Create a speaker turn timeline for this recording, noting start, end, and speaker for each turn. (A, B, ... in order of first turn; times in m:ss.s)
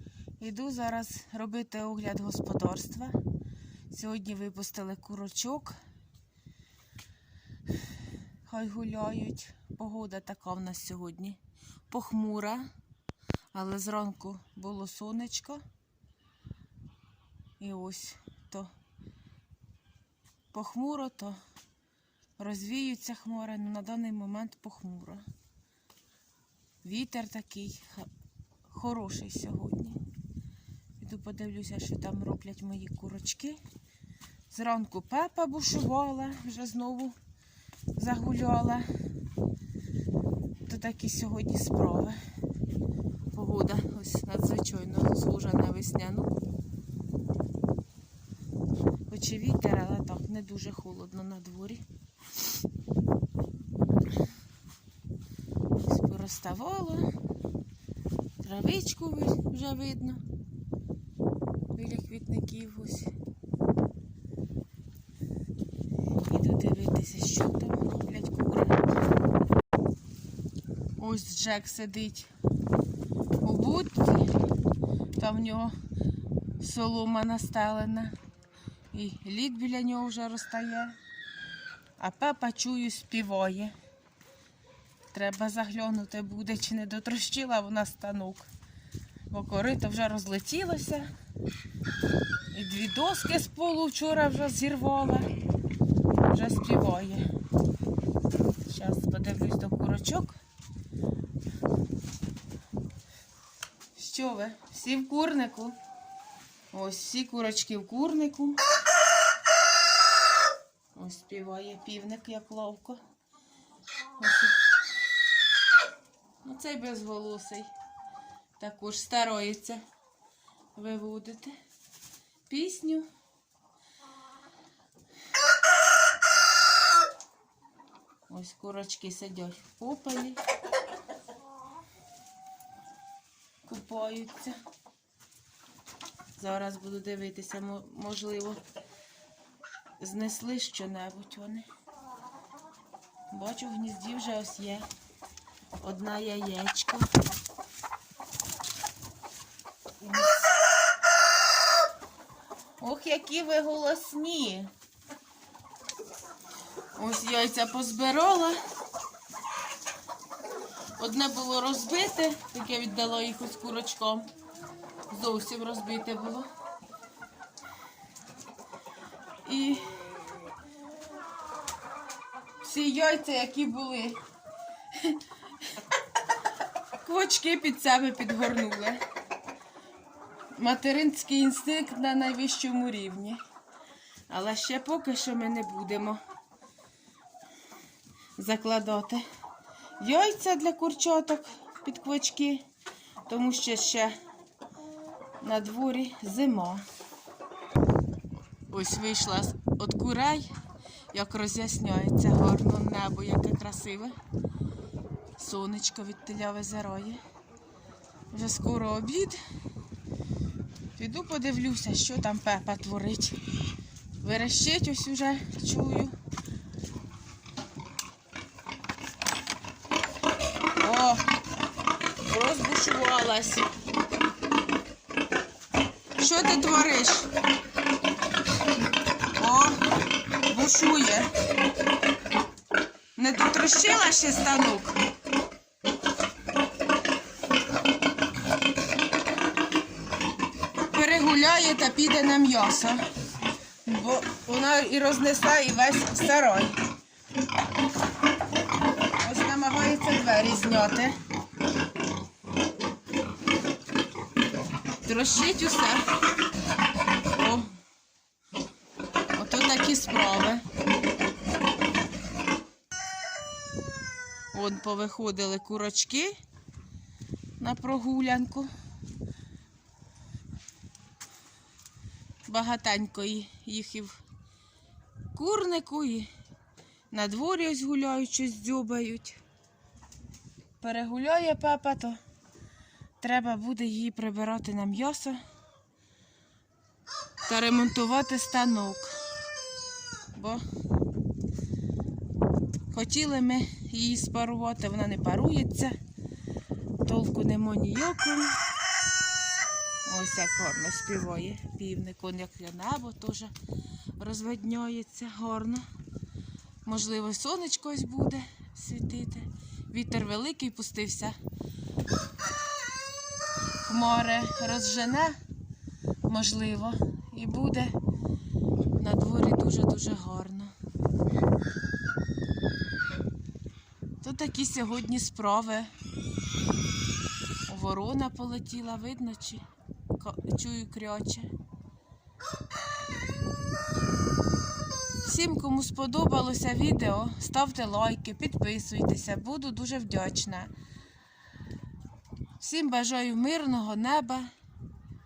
0:00.4-0:03.2 A
0:03.9-0:05.8 A
0:08.4-0:12.7 A
0:13.5-0:15.6 A
0:17.6-0:18.7 A
0:20.5-0:21.4 A
0:22.4-0:25.2 A
0:26.8-0:28.1 A
0:28.6-0:30.0 A
0:31.0-0:33.6 A
0:34.5-0:37.2 A
0:38.0-0:38.9 A
0:40.7-0:42.2 A
0:43.3-0:46.3 A
0:49.1-0:51.8 A
0:55.7-0:57.1 A
0:58.4-1:00.2 A
1:01.7-1:03.1 A
1:06.2-1:08.8 A
1:11.0-1:12.3 A
1:13.4-1:14.3 A
1:15.2-1:15.7 A
1:16.6-1:18.1 A
1:18.9-1:21.0 A
1:22.0-1:23.7 A
1:25.1-1:28.5 A
1:29.3-1:31.1 A
1:32.5-1:35.3 A
1:36.2-1:37.2 A
1:38.6-1:40.4 A
1:43.9-1:45.8 A
1:46.7-1:48.6 A
1:50.9-1:53.0 A
1:54.2-1:54.6 A
1:56.4-1:57.7 A
1:58.6-1:59.8 A
2:00.7-2:01.5 A
2:02.5-2:03.1 A
2:08.3-2:10.4 A
2:13.6-2:14.6 A
2:16.4-2:18.6 A
2:20.0-2:21.6 A
2:23.3-2:24.9 A
2:25.8-2:27.1 A
2:30.0-2:30.4 A
2:32.8-2:34.7 A
2:37.0-2:38.6 A
2:41.0-2:44.3 A
2:45.1-2:46.5 A
2:49.4-2:49.8 A
2:52.6-2:54.2 A
2:57.0-2:59.0 A
3:00.5-3:03.4 A
3:04.3-3:06.2 A
3:08.4-3:09.2 A
3:10.0-3:12.6 A
3:13.2-3:14.2 A
3:15.4-3:16.8 A
3:18.7-3:20.5 A
3:21.1-3:24.1 A
3:25.4-3:27.2 A
3:28.3-3:29.4 A
3:31.0-3:33.4 A
3:34.2-3:36.1 A
3:40.8-3:41.2 A
3:42.2-3:43.6 A
3:46.2-3:47.3 A
3:49.4-3:49.8 A
3:50.4-3:51.3 A
3:53.2-3:55.0 A
4:00.9-4:03.0 A
4:03.8-4:06.8 A
4:09.2-4:11.2 A
4:15.0-4:16.1 A
4:17.3-4:17.7 A
4:19.3-4:20.6 A
4:24.5-4:26.4 A
4:27.6-4:28.7 A
4:32.5-4:34.2 A
4:35.3-4:36.3 A
4:37.1-4:39.4 A
4:40.8-4:42.2 A
4:43.2-4:45.4 A
4:47.4-4:49.2 A
4:50.3-4:50.6 A
4:52.9-4:55.9 A
4:57.0-4:58.6 A
5:00.0-5:03.5 A
5:04.2-5:05.8 A
5:06.8-5:11.4 A
5:13.8-5:15.4 A
5:16.2-5:18.0 A
5:19.0-5:20.7 A
5:24.2-5:25.9 A
5:27.7-5:29.6 A
5:30.2-5:31.5 A
5:35.2-5:40.7 A
5:42.6-5:44.5 A